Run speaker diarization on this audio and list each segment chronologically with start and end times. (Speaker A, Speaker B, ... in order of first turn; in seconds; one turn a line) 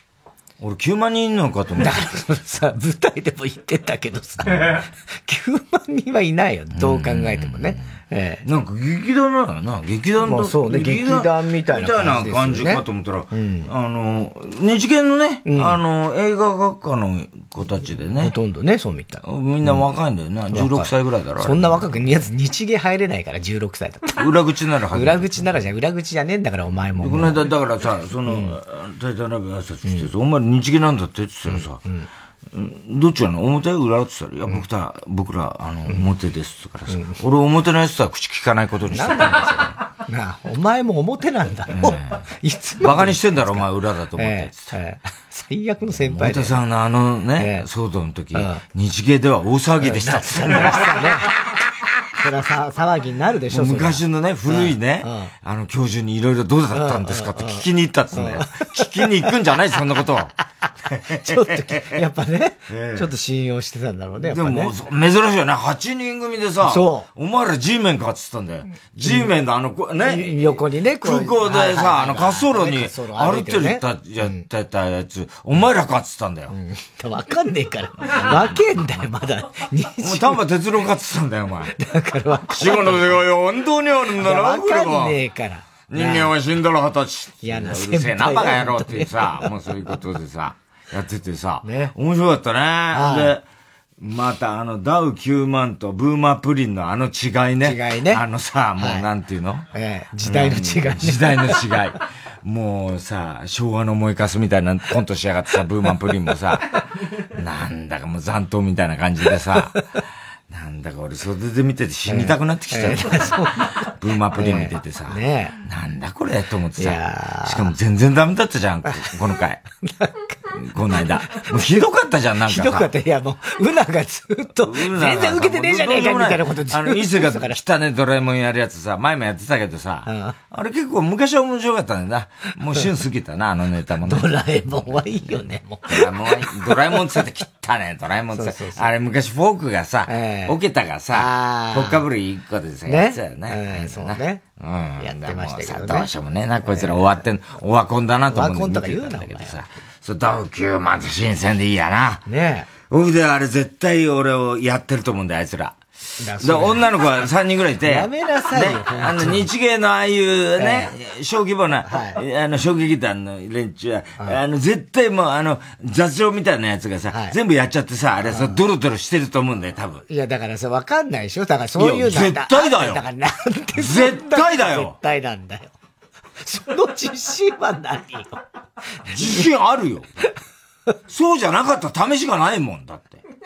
Speaker A: 0.6-2.0
Speaker B: 1.8-8.4
Speaker A: 6.7-7.9
Speaker A: 8.4-18.3
Speaker B: 10.2-13.7
Speaker B: 15.4-15.8
Speaker B: 18.2-19.2
Speaker A: 19.2-21.8
Speaker B: 20.5-24.2
Speaker A: 24.1-25.6
Speaker B: 24.9-27.4
Speaker A: 27.0-31.8
Speaker B: 28.2-28.5
Speaker B: 31.5-32.1
Speaker A: 32.5-39.8
Speaker B: 36.9-37.2
Speaker B: 38.9-43.6
Speaker A: 41.7-42.2
Speaker A: 42.8-44.8
Speaker B: 44.2-46.6
Speaker A: 46.0-51.1
Speaker B: 47.4-47.6
Speaker B: 48.3-48.6
Speaker B: 49.8-51.3
Speaker B: 52.2-55.3
Speaker A: 53.5-60.3
Speaker B: 56.7-59.3
Speaker A: 61.0-62.0
Speaker B: 61.1-64.7
Speaker A: 62.7-63.1
Speaker A: 64.2-76.5
Speaker B: 66.6-67.0
Speaker B: 69.0-69.3
Speaker B: 70.0-74.4
Speaker B: 76.5-80.4
Speaker A: 78.1-78.5
Speaker A: 80.0-81.7
Speaker B: 81.8-83.1
Speaker A: 82.5-85.2
Speaker B: 84.2-86.3
Speaker A: 85.9-93.4
Speaker B: 87.4-89.5
Speaker B: 91.6-91.9
Speaker B: 92.9-93.3
Speaker A: 94.0-99.7
Speaker B: 97.6-98.2
Speaker B: 98.8-99.0
Speaker B: 99.7-101.7
Speaker A: 100.2-106.8
Speaker A: 107.3-109.8
Speaker A: 110.5-119.6
Speaker B: 112.1-115.5
Speaker B: 116.8-117.7
Speaker B: 119.8-120.3
Speaker A: 120.5-122.9
Speaker B: 120.9-121.5
Speaker B: 122.5-127.6
Speaker A: 124.6-134.3
Speaker B: 130.1-130.3
Speaker B: 134.1-137.1
Speaker A: 135.9-152.2
Speaker B: 138.3-138.9
Speaker B: 140.1-140.6
Speaker B: 141.1-142.0
Speaker B: 142.9-144.4
Speaker B: 145.0-146.1
Speaker B: 146.7-147.1
Speaker B: 148.3-149.6
Speaker B: 152.2-152.7
Speaker A: 152.8-155.8
Speaker B: 156.2-156.8
Speaker A: 156.4-170.0
Speaker B: 157.8-159.5
Speaker B: 160.6-160.9
Speaker B: 161.9-162.2
Speaker B: 168.3-168.6
Speaker B: 170.1-175.7
Speaker A: 171.8-173.0
Speaker A: 173.8-174.9
Speaker B: 176.4-178.3
Speaker B: 179.1-179.5
Speaker A: 179.1-180.3
Speaker A: 181.1-183.2